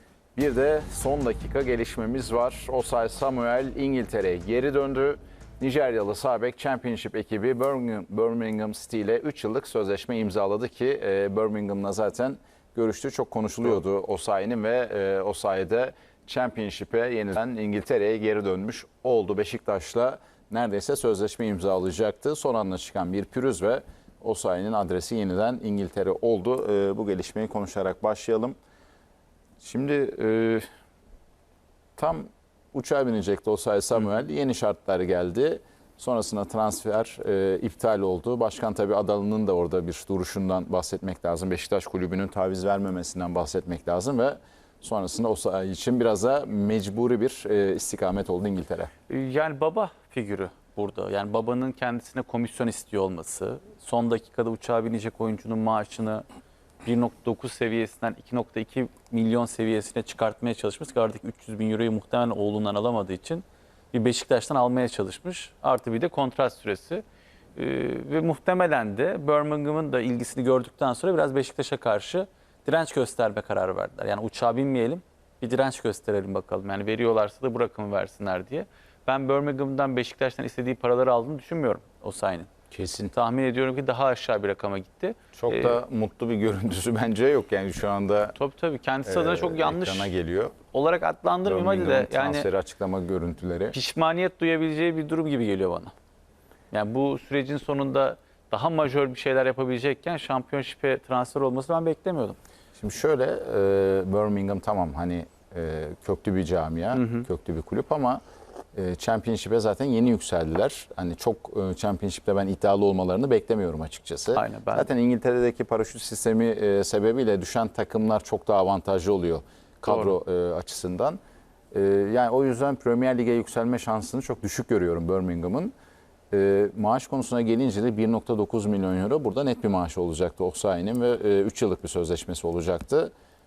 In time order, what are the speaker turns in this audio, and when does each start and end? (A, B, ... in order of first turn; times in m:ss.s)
0:00.4-0:28.6 A
0:29.6-0:30.7 A
0:32.0-0:48.9 A
0:49.1-0:56.3 B
0:56.8-1:07.0 B
1:07.6-1:22.5 B
1:22.7-1:23.1 A
1:23.1-1:25.8 B
1:25.4-1:28.4 A
1:28.4-1:30.1 B
1:29.0-1:30.6 A
1:30.7-1:32.5 B
1:31.4-1:33.8 A
1:33.7-1:35.9 B
1:36.7-1:42.4 B
1:42.8-1:48.2 A
1:46.9-1:47.3 B
1:48.8-2:01.2 A
1:54.4-1:54.9 B
1:59.9-2:00.2 B
2:01.7-2:05.7 A
2:06.3-2:13.1 A